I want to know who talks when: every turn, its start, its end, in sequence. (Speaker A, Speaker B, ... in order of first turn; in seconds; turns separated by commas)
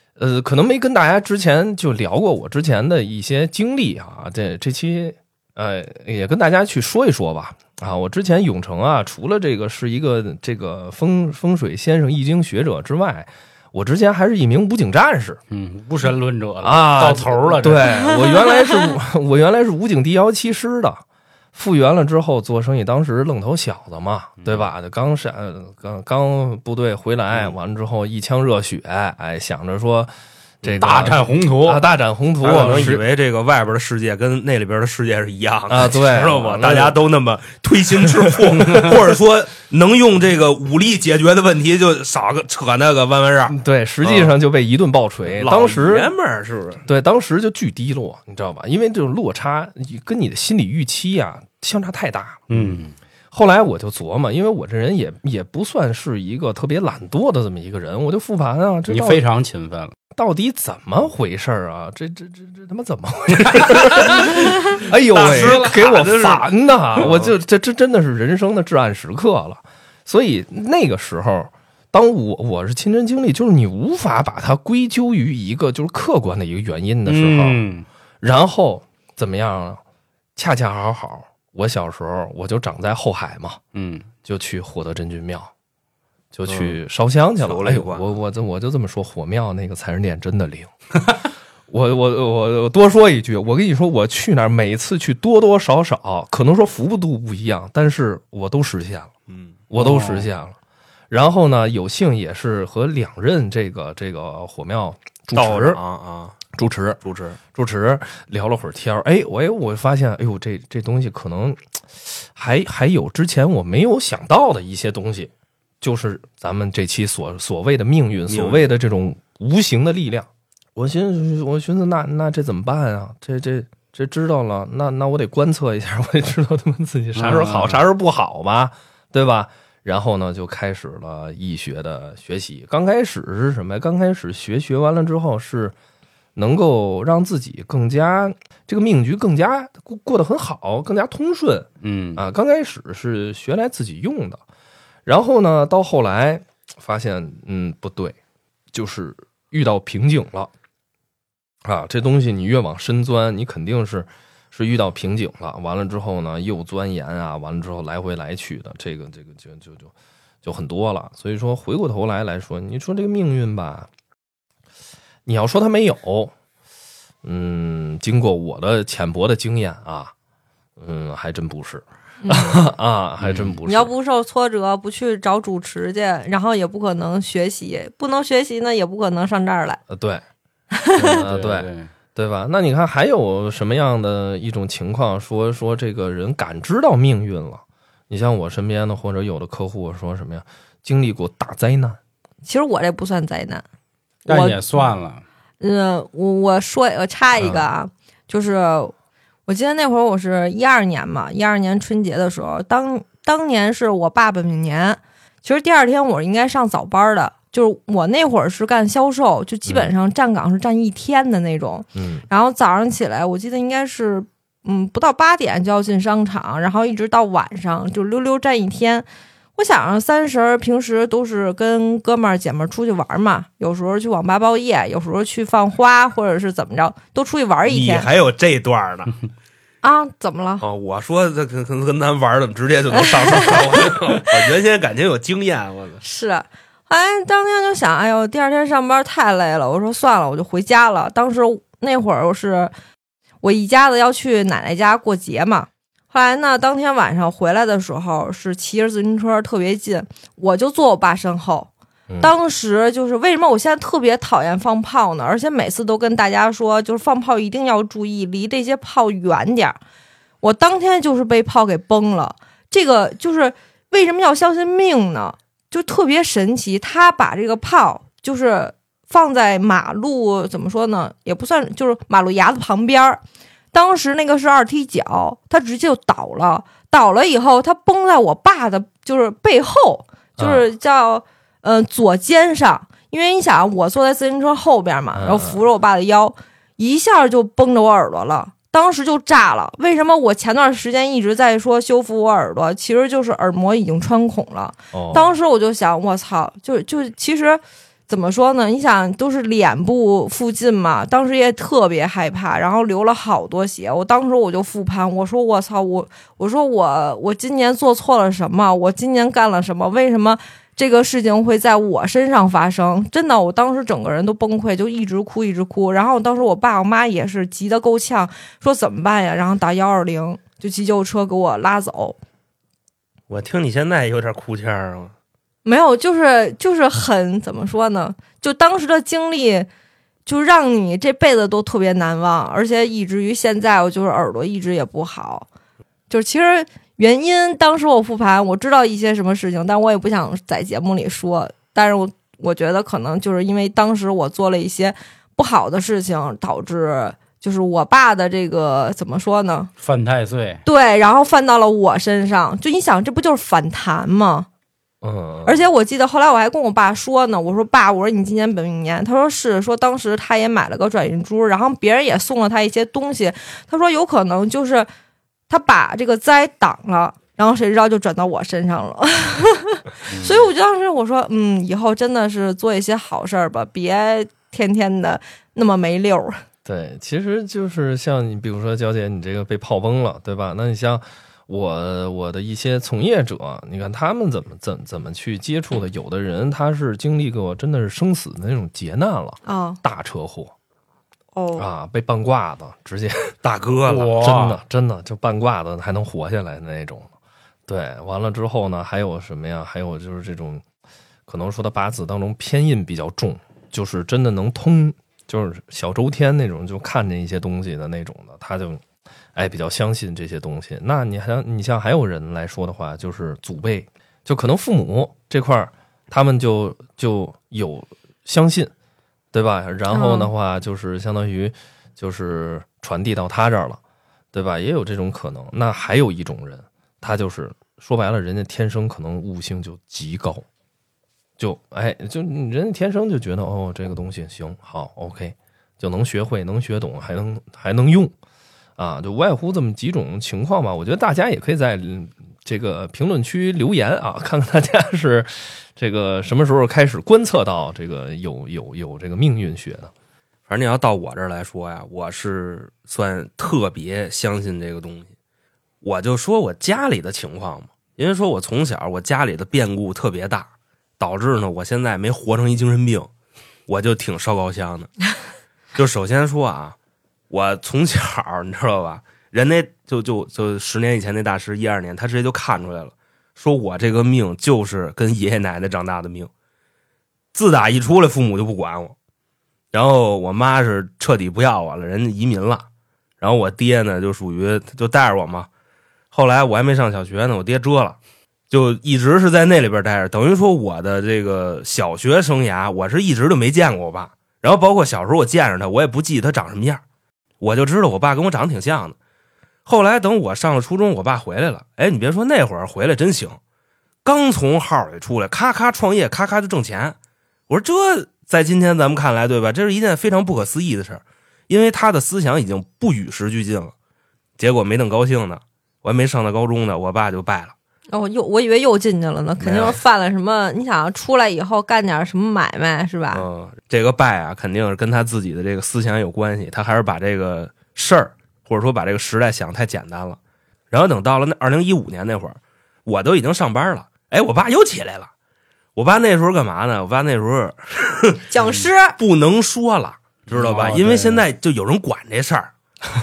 Speaker A: 0.2-15.4, Speaker B: 15.5-18.2, Speaker A: 16.6-21.0, Speaker A: 21.6-33.0, Speaker B: 24.4-24.7, Speaker B: 30.7-31.9, Speaker C: 32.4-44.4, Speaker B: 32.6-32.8, Speaker A: 35.7-37.0, Speaker A: 38.0-39.0, Speaker A: 43.5-46.1, Speaker C: 45.4-46.8, Speaker A: 46.9-52.8, Speaker B: 52.5-53.0, Speaker A: 53.3-59.2, Speaker B: 58.9-60.0, Speaker A: 60.1-77.6, Speaker C: 64.0-67.3, Speaker B: 77.1-77.8, Speaker A: 78.2-79.8, Speaker A: 80.4-83.6, Speaker B: 83.7-84.1, Speaker A: 84.2-85.5, Speaker A: 86.3-91.0, Speaker C: 86.5-86.8, Speaker C: 87.4-88.2, Speaker A: 91.7-99.1, Speaker C: 99.3-99.5, Speaker A: 99.7-100.6, Speaker B: 99.8-100.3, Speaker A: 101.1-105.8, Speaker C: 105.3-106.4, Speaker A: 106.5-135.7, Speaker C: 107.0-107.4, Speaker C: 118.3-118.6, Speaker B: 127.2-127.9, Speaker A: 136.4-144.4, Speaker B: 141.8-142.2, Speaker A: 145.1-148.2, Speaker A: 148.7-150.5, Speaker A: 151.7-159.9, Speaker A: 160.4-163.9, Speaker A: 165.3-166.3, Speaker A: 167.2-170.1, Speaker A: 170.8-173.9, Speaker D: 172.2-172.6, Speaker B: 173.2-173.6, Speaker D: 173.7-179.8, Speaker A: 179.9-180.2, Speaker D: 180.7-181.2, Speaker B: 181.0-181.9, Speaker A: 181.2-192.0, Speaker D: 192.4-193.7, Speaker D: 194.3-194.6, Speaker B: 194.3-195.2, Speaker D: 195.6-198.9, Speaker D: 199.5-228.1, Speaker A: 211.9-212.3, Speaker C: 227.7-229.2, Speaker D: 229.8-230.6, Speaker C: 230.6-236.0, Speaker D: 233.2-234.2, Speaker D: 236.0-242.7, Speaker D: 243.4-251.7, Speaker D: 252.2-259.8, Speaker D: 260.4-273.2, Speaker D: 273.7-322.2, Speaker A: 280.4-280.6, Speaker A: 285.1-285.6, Speaker A: 294.9-295.3, Speaker C: 323.3-325.1, Speaker D: 325.6-329.7, Speaker D: 330.3-335.5, Speaker D: 336.1-349.7, Speaker B: 349.8-350.6, Speaker D: 350.6-354.5, Speaker A: 355.0-355.7, Speaker D: 355.4-364.9, Speaker D: 365.5-376.4, Speaker A: 376.6-390.5, Speaker D: 389.4-389.8, Speaker D: 391.3-391.6, Speaker A: 391.6-393.4, Speaker C: 393.4-394.2, Speaker B: 393.9-394.6, Speaker A: 394.1-397.1, Speaker A: 397.7-400.6, Speaker A: 401.3-408.8, Speaker A: 409.4-418.7, Speaker A: 419.3-423.8, Speaker D: 419.9-420.3, Speaker A: 424.3-430.4, Speaker A: 431.4-438.1, Speaker A: 438.8-449.9, Speaker C: 450.5-455.1, Speaker C: 455.8-463.1, Speaker C: 463.7-465.0, Speaker C: 465.8-466.8, Speaker C: 467.3-476.3, Speaker C: 477.3-478.9, Speaker C: 479.7-482.7, Speaker C: 483.2-485.5, Speaker C: 486.1-488.0, Speaker C: 488.5-496.8, Speaker C: 497.4-499.0, Speaker C: 499.7-503.4, Speaker C: 504.1-507.0, Speaker C: 507.5-513.7, Speaker C: 514.4-517.5, Speaker D: 517.9-523.2, Speaker C: 519.4-519.8, Speaker C: 523.1-530.2, Speaker C: 530.7-535.1, Speaker C: 535.8-538.2, Speaker D: 538.3-539.0, Speaker C: 539.0-542.5, Speaker B: 540.3-541.2